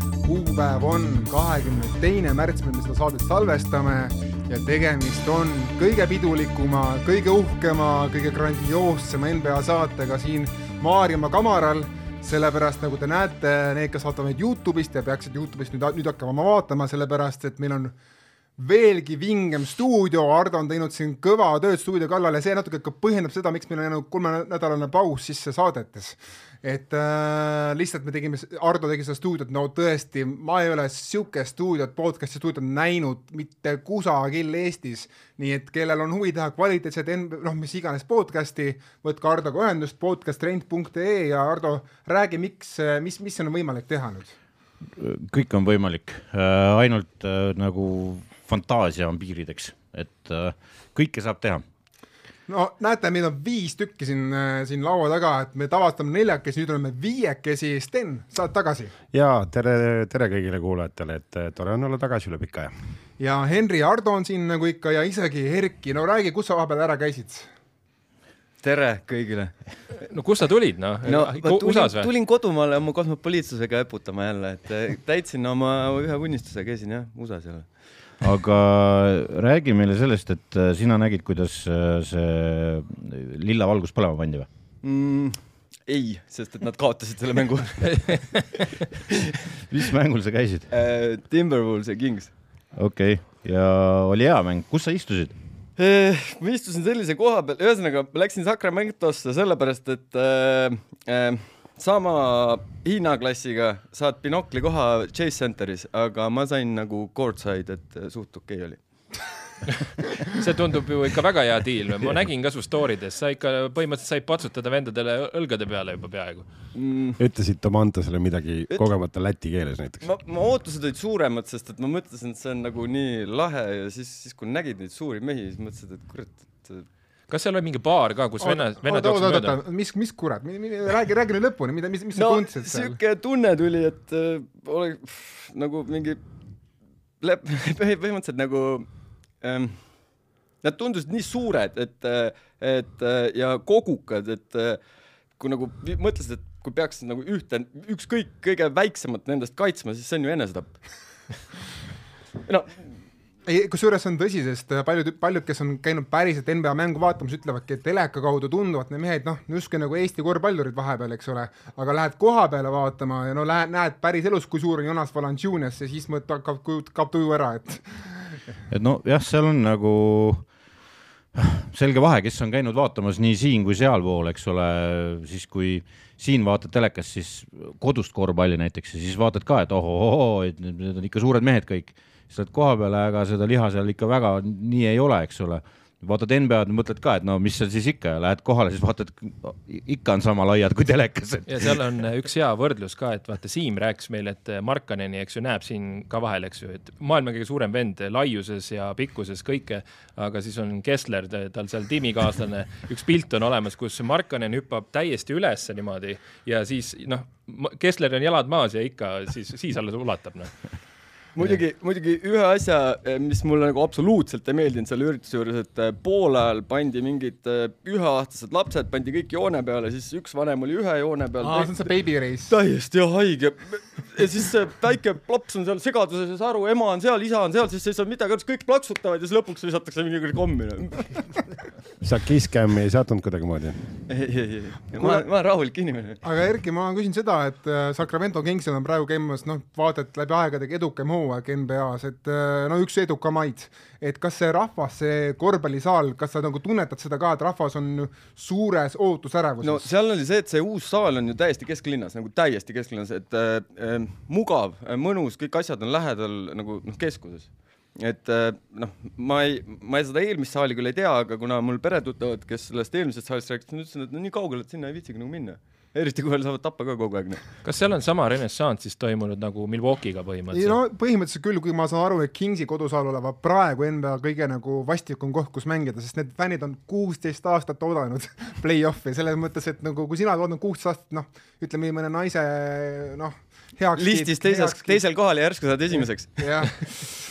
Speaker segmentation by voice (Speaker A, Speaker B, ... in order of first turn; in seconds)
Speaker A: 0.2-17.9, 18.6-44.4, 52.5-58.9, 63.2-67.5, 128.4-133.0, 153.4-168.4, 221.4-222.5, 236.2-249.9, 270.5-285.0, 286.4-287.1
Speaker B: 45.0-51.6, 78.2-84.5, 89.7-90.7, 92.7-95.3, 168.7-170.5, 171.3-191.8
Speaker C: 59.1-62.7, 117.2-120.1, 232.0-234.0
Speaker D: 68.6-69.7, 71.0-77.7, 84.8-88.5, 90.7-92.3, 95.8-108.8, 116.7-117.2, 120.0-126.9, 132.1-136.2, 137.2-144.8, 145.4-150.8, 152.4-152.9, 211.3-221.9, 222.5-231.3, 234.1-236.2, 249.6-267.4, 283.9-286.6
Speaker E: 70.0-72.1, 110.3-116.5, 127.3-129.6, 191.5-210.8, 267.6-270.8